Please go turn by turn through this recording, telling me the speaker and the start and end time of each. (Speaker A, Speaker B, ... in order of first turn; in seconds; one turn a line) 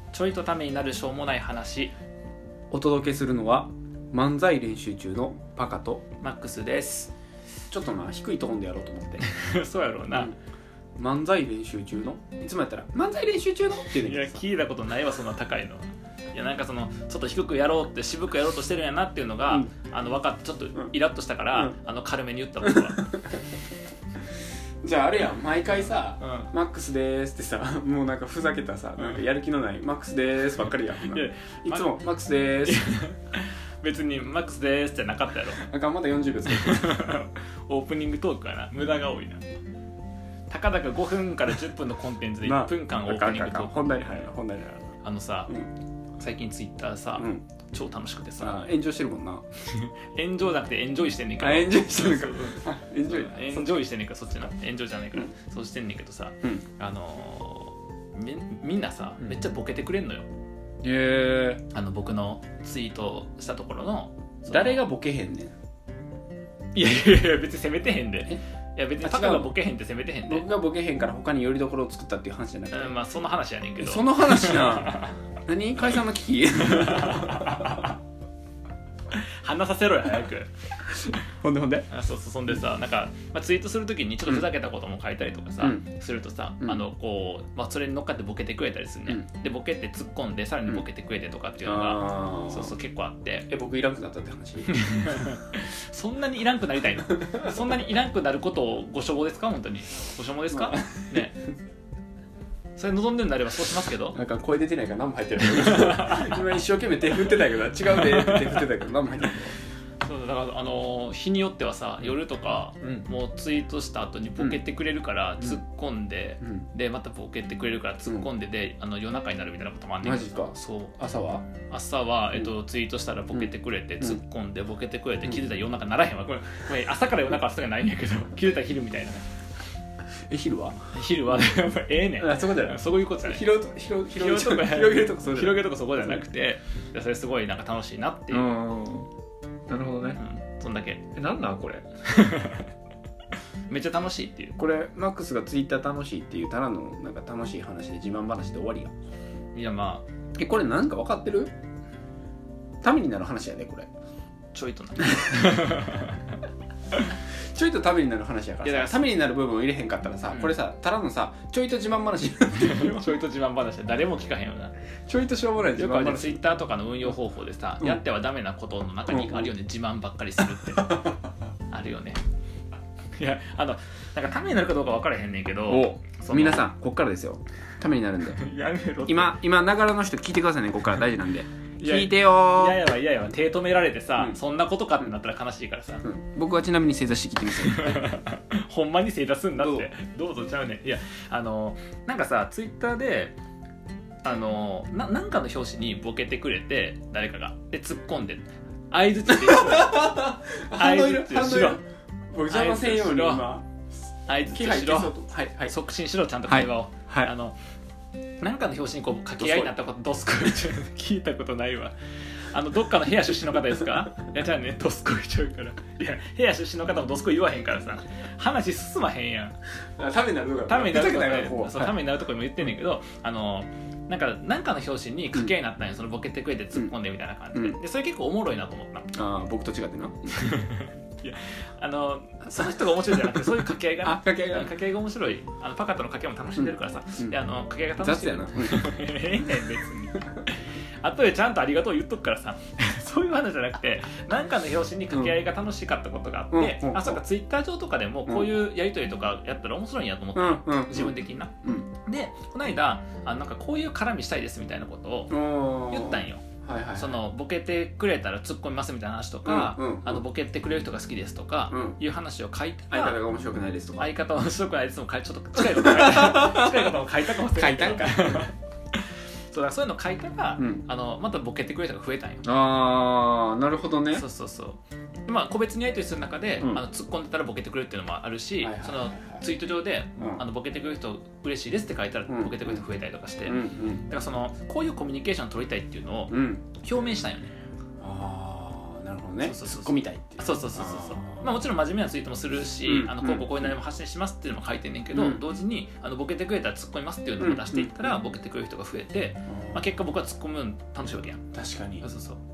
Speaker A: 0.1-1.9
Speaker B: 2.7-6.0
Speaker A: 6.2-7.1
Speaker B: 7.7-9.2
Speaker A: 9.2-10.3
Speaker B: 11.0-14.4
Speaker A: 13.9-23.1
Speaker B: 22.6-23.2
Speaker B: 24.8-33.0
Speaker A: 26.2-26.5
Speaker A: 31.0-31.9
Speaker A: 32.6-35.6
Speaker B: 35.6-36.9
Speaker A: 36.5-39.4
Speaker A: 40.5-44.3
Speaker B: 42.4-44.9
Speaker A: 45.0-45.5
Speaker A: 46.2-48.6
Speaker B: 47.1-47.5
Speaker B: 48.4-49.4
Speaker A: 49.6-60.3
Speaker B: 51.4-53.9
Speaker B: 60.8-61.6
Speaker A: 61.7-64.8
Speaker B: 64.4-65.5
Speaker A: 66.7-70.4
Speaker B: 69.0-69.5
Speaker B: 70.2-72.9
Speaker A: 72.7-75.1
Speaker B: 73.8-77.9
Speaker A: 76.6-78.0
Speaker A: 79.1-80.5
Speaker B: 81.1-81.9
Speaker A: 81.9-93.5
Speaker B: 91.6-92.7
Speaker B: 93.5-94.7
Speaker A: 94.7-101.4
Speaker B: 100.5-100.8
Speaker A: 102.8-104.2
Speaker B: 104.1-109.5
Speaker A: 105.6-106.3
Speaker A: 107.9-108.6
Speaker A: 110.0-121.0
Speaker B: 120.0-121.5
Speaker A: 121.7-129.2
Speaker B: 130.3-131.4
Speaker A: 130.9-133.4
Speaker B: 132.2-136.2
Speaker A: 134.1-138.5
Speaker B: 138.3-139.1
Speaker B: 139.7-140.2
Speaker A: 140.1-141.1
Speaker B: 141.2-141.8
Speaker A: 142.1-142.7
Speaker A: 143.7-144.6
Speaker B: 144.6-148.9
Speaker A: 149.5-150.1
Speaker B: 150.4-151.5
Speaker B: 152.8-153.9
Speaker A: 154.5-156.2
Speaker B: 157.5-163.2
Speaker A: 158.6-159.1
Speaker A: 162.6-164.7
Speaker B: 165.1-166.4
Speaker A: 165.8-171.1
Speaker B: 169.1-169.5
Speaker B: 170.8-171.1
Speaker A: 171.7-172.2
Speaker A: 173.2-176.7
Speaker B: 175.7-178.4
Speaker A: 178.3-179.4
Speaker B: 179.1-182.8
Speaker A: 181.8-186.0
Speaker B: 186.0-188.0
Speaker A: 187.6-193.3
Speaker B: 189.6-189.9
Speaker A: 194.2-201.8
Speaker B: 199.3-203.7
Speaker A: 202.5-203.5
Speaker A: 204.3-205.1
Speaker B: 204.4-205.7
Speaker A: 205.7-207.6
Speaker B: 206.5-207.3
Speaker A: 208.4-211.9
Speaker B: 209.4-209.9
Speaker A: 212.5-219.6
Speaker B: 220.0-221.9
Speaker A: 220.7-229.1
Speaker B: 227.5-227.8
Speaker B: 229.1-230.5
Speaker A: 230.3-255.4
Speaker B: 232.5-234.7
Speaker B: 236.5-237.4
Speaker B: 238.0-239.0
Speaker B: 246.5-247.2
Speaker B: 248.2-248.5
Speaker B: 250.3-251.9
Speaker B: 255.3-257.1
Speaker A: 255.9-256.4
Speaker A: 257.0-263.2
Speaker B: 259.4-260.2
Speaker B: 261.7-262.0
Speaker B: 262.9-264.1
Speaker A: 264.0-269.0
Speaker B: 265.6-268.5
Speaker A: 269.5-272.4
Speaker B: 270.6-270.9
Speaker B: 272.4-274.2
Speaker A: 274.1-287.5
Speaker B: 276.6-276.8
Speaker B: 278.6-279.4
Speaker B: 280.2-280.4
Speaker B: 282.3-282.8
Speaker B: 283.4-284.1
Speaker B: 286.3-286.6
Speaker B: 288.0-291.6
Speaker A: 289.4-301.4
Speaker B: 292.8-293.7
Speaker B: 295.1-295.4
Speaker B: 297.4-298.1
Speaker B: 299.5-299.8
Speaker B: 301.5-302.1
Speaker A: 302.0-302.4